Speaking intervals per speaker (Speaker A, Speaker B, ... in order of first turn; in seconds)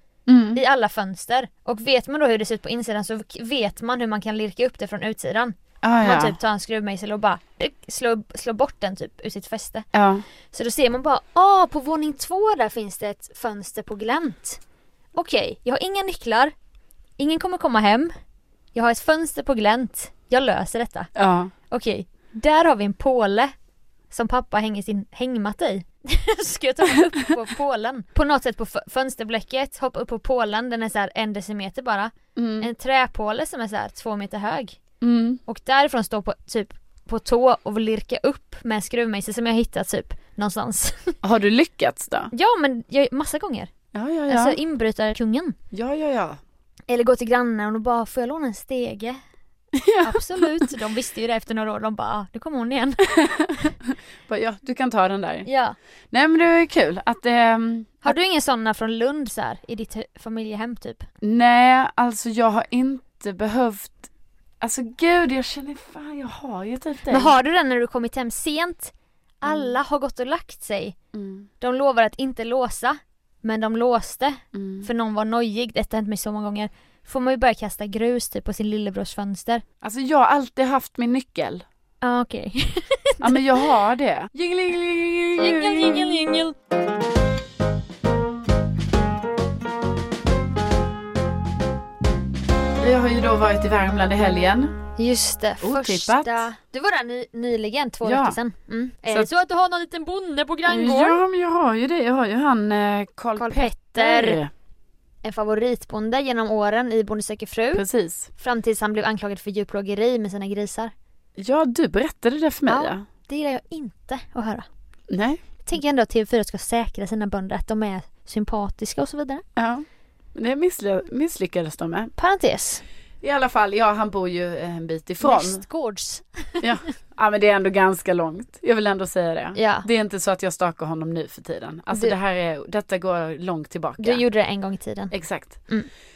Speaker A: 0.3-0.6, 5.8-6.3, 9.9-10.2, 21.1-21.5, 32.4-32.7, 35.0-35.4, 41.2-42.3, 43.9-44.6, 45.7-46.4, 49.7-50.7, 53.0-55.5, 56.1-58.1, 61.2-64.1, 64.6-67.3, 69.5-69.7, 71.1-71.5, 74.5-74.9, 79.8-81.6, 83.2-86.2, 92.8-94.8, 95.6-96.5, 98.0-98.4, 100.7-104.5, 107.7-108.3, 111.4-113.0, 115.1-115.4, 119.5-122.1, 123.2-125.6, 126.6-134.2, 135.1-135.6
Speaker B: 0.5-9.9, 10.5-14.6, 15.1-16.5, 17.2-18.1, 18.7-21.1, 21.7-23.5, 24.1-34.8, 35.5-41.2, 42.3-43.7, 44.3-45.6, 46.9-49.2, 50.0-53.2, 55.4-55.8, 58.0-61.1, 67.1-71.0, 71.6-79.6, 82.0-83.6, 85.4-86.5, 95.0-101.2, 103.3-104.4, 105.2-107.8, 108.4-110.9, 112.7-114.7, 115.7-119.4, 122.2-122.8, 125.2-126.7, 129.5-129.9, 134.0-135.1